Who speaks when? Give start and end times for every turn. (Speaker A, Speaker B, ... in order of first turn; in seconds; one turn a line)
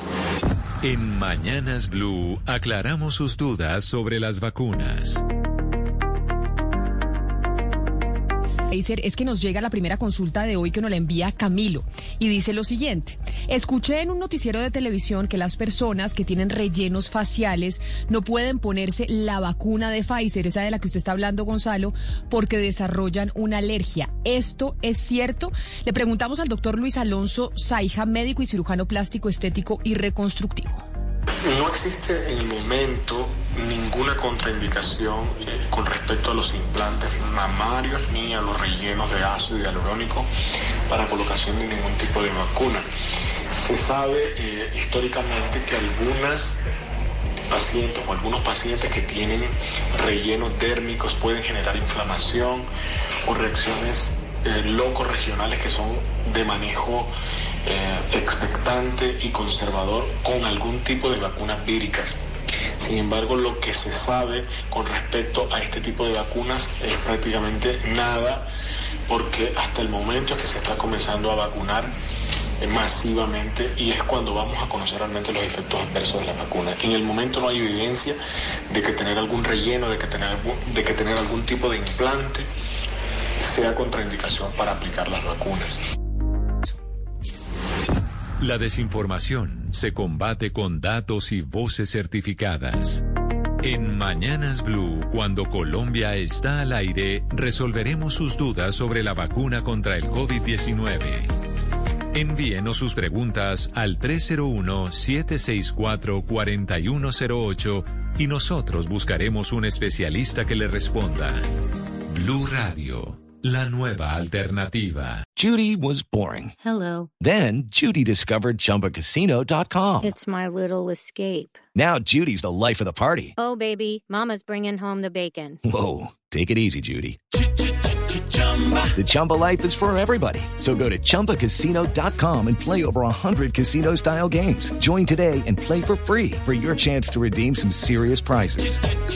Speaker A: 0.8-5.2
Speaker B: 8.7-30.9
Speaker C: 31.5-40.3
Speaker C: 40.9-42.9
Speaker C: 43.5-46.6
Speaker C: 47.5-52.7
Speaker C: 53.3-57.1
Speaker C: 57.6-62.2
Speaker C: 62.8-68.5
Speaker C: 69.1-71.9
Speaker C: 72.6-82.5
Speaker C: 83.4-85.8
Speaker A: 88.4-93.0
Speaker A: 93.6-101.3
Speaker A: 102.1-111.4
Speaker A: 112.1-115.2
Speaker D: 115.4-116.5
Speaker E: 116.6-117.1
Speaker D: 117.2-120.2
Speaker E: 120.0-121.6
Speaker D: 121.8-123.4
Speaker E: 123.4-125.6
Speaker D: 125.6-127.2
Speaker D: 128.8-138.9